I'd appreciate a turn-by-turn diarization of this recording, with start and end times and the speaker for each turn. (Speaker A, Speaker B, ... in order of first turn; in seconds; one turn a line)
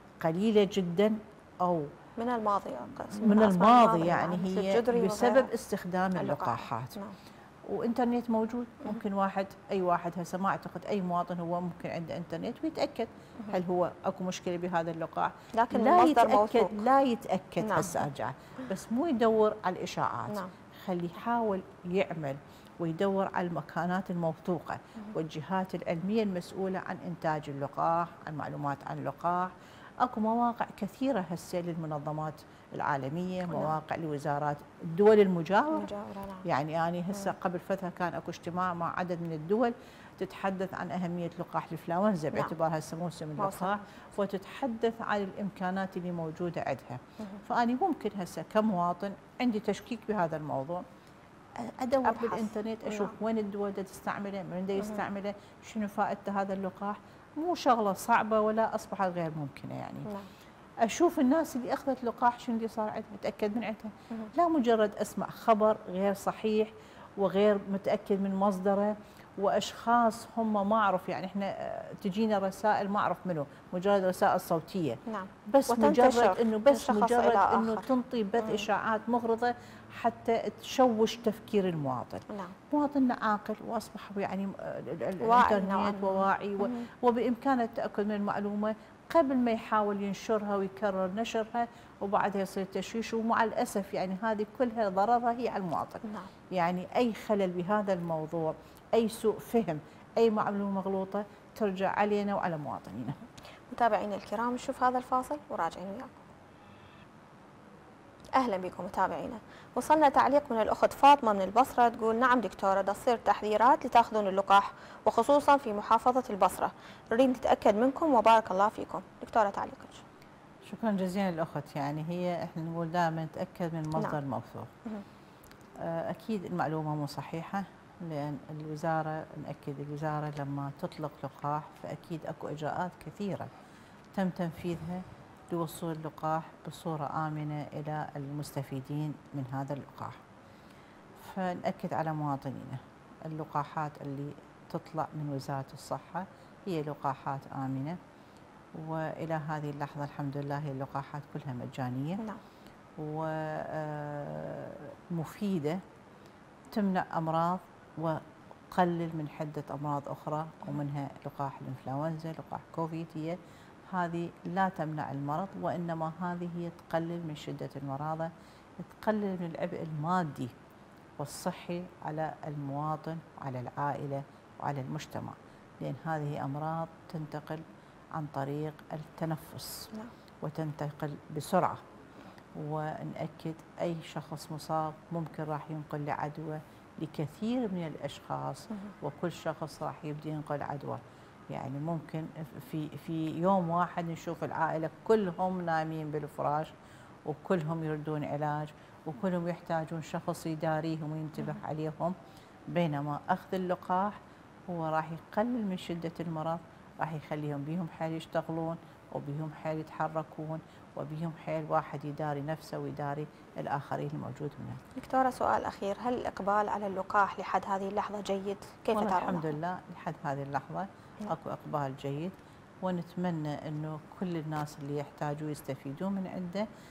Speaker A: 0.2-1.9
Speaker B: 2.2-5.5
Speaker A: 3.1-7.0
Speaker B: 6.2-7.2
Speaker A: 7.7-35.9
Speaker B: 15.5-16.9
Speaker B: 17.6-18.1
Speaker B: 35.7-36.5
Speaker A: 36.4-50.8
Speaker B: 43.4-43.8
Speaker A: 51.5-60.1
Speaker B: 52.1-53.1
Speaker A: 60.8-103.2
Speaker B: 75.1-77.9
Speaker B: 85.2-86.9
Speaker B: 103.7-106.2
Speaker B: 108.3-120.0
Speaker A: 120.6-124.7
Speaker A: 125.8-133.5
Speaker A: 134.1-140.2
Speaker A: 141.2-148.0
Speaker A: 148.7-152.2
Speaker A: 153.0-155.8
Speaker A: 156.7-170.6
Speaker A: 171.2-179.9
Speaker A: 180.4-181.8
Speaker A: 182.6-196.7
Speaker A: 197.2-202.2
Speaker A: 202.7-214.8
Speaker B: 214.9-219.5
Speaker A: 218.9-226.7